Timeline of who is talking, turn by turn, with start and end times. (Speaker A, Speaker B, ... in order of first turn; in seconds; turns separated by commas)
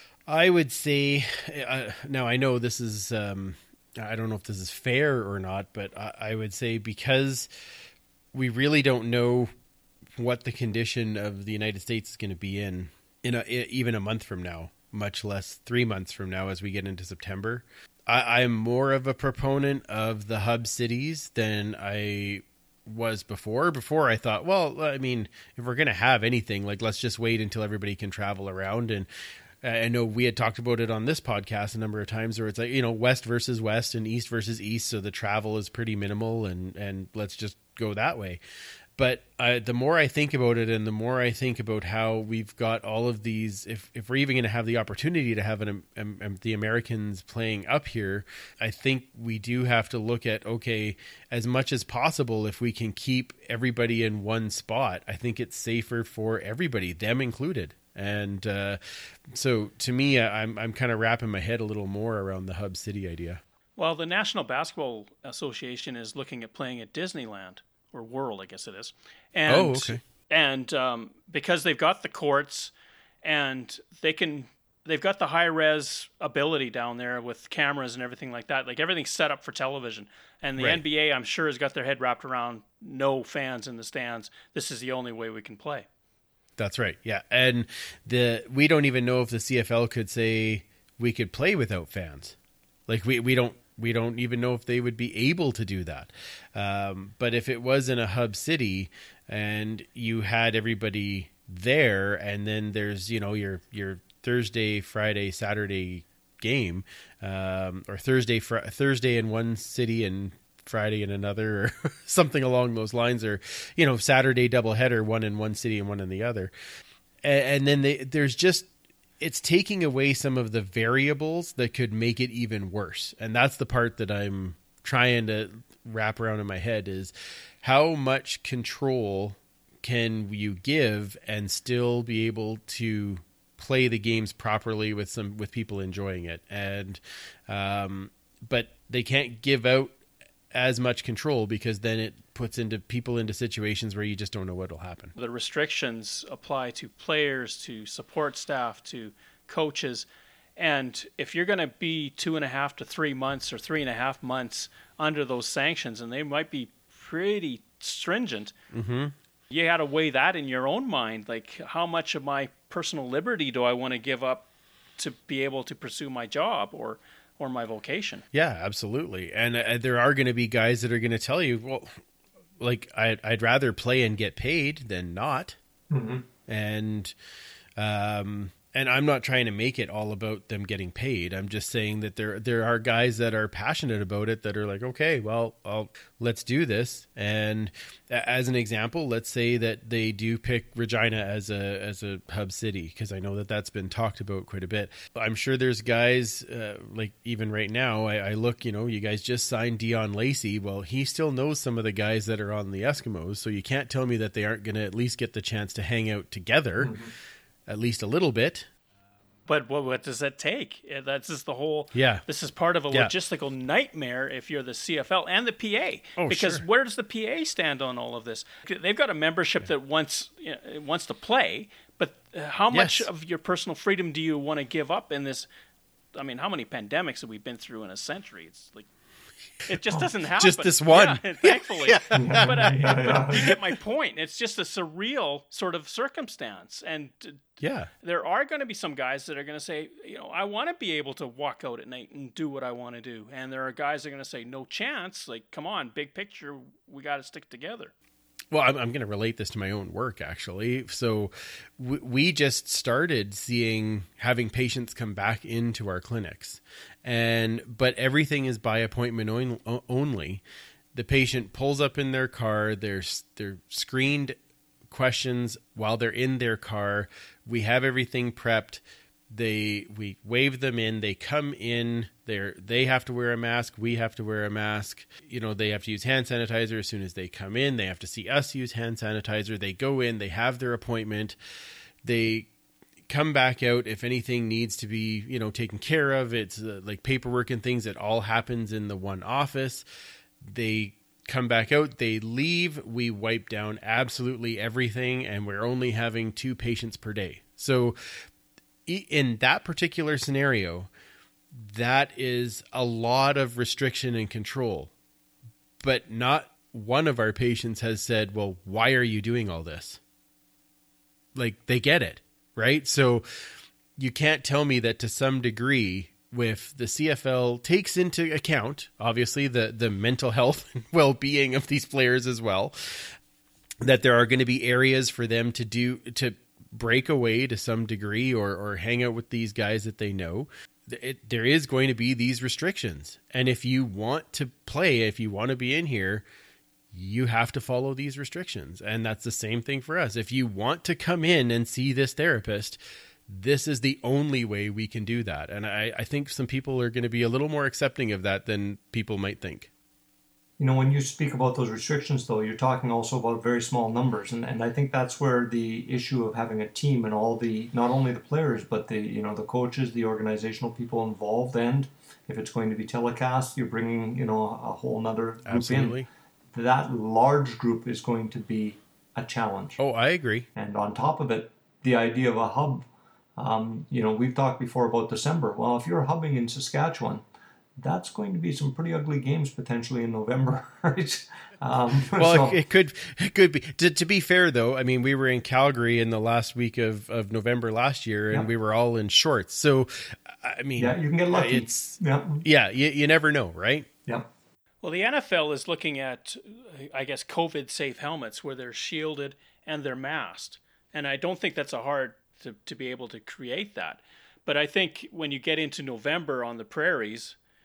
Speaker A: 0.3-7.5, Speaker A: 8.3-9.5, Speaker A: 10.2-29.1, Speaker A: 29.6-38.4, Speaker A: 39.0-63.4, Speaker B: 63.8-72.7, Speaker A: 69.5-70.0, Speaker B: 73.2-85.8, Speaker A: 80.6-80.8, Speaker A: 86.6-92.3, Speaker A: 92.9-116.5, Speaker A: 117.2-118.7, Speaker A: 119.2-139.9, Speaker A: 140.5-145.1, Speaker B: 145.1-158.5, Speaker A: 158.7-159.1, Speaker B: 159.5-164.4, Speaker B: 165.0-168.2, Speaker A: 168.3-172.0, Speaker A: 172.6-175.6, Speaker C: 175.9-176.2, Speaker A: 176.5-177.1, Speaker A: 177.8-207.0, Speaker C: 206.8-207.1, Speaker A: 207.7-208.7, Speaker B: 209.5-225.5, Speaker A: 211.9-212.2, Speaker A: 216.2-216.6, Speaker A: 222.7-223.1, Speaker B: 226.1-228.8, Speaker B: 229.7-237.4, Speaker A: 229.9-233.5, Speaker C: 232.1-233.5, Speaker A: 237.6-237.9, Speaker B: 238.0-247.9, Speaker A: 248.5-260.4, Speaker A: 260.9-264.4, Speaker A: 264.9-281.4, Speaker A: 282.0-282.5, Speaker A: 283.1-289.9, Speaker A: 290.4-297.9, Speaker A: 298.9-300.9, Speaker A: 301.5-304.9, Speaker A: 305.8-310.0, Speaker A: 311.3-313.2, Speaker A: 314.0-323.1, Speaker A: 323.8-336.2, Speaker A: 336.9-349.7, Speaker C: 350.6-365.9, Speaker A: 365.4-366.1, Speaker C: 366.5-369.8, Speaker A: 369.8-370.5, Speaker C: 370.6-372.9, Speaker C: 373.4-377.2, Speaker C: 377.8-382.6, Speaker A: 382.1-393.9, Speaker C: 390.8-392.4, Speaker B: 394.8-407.4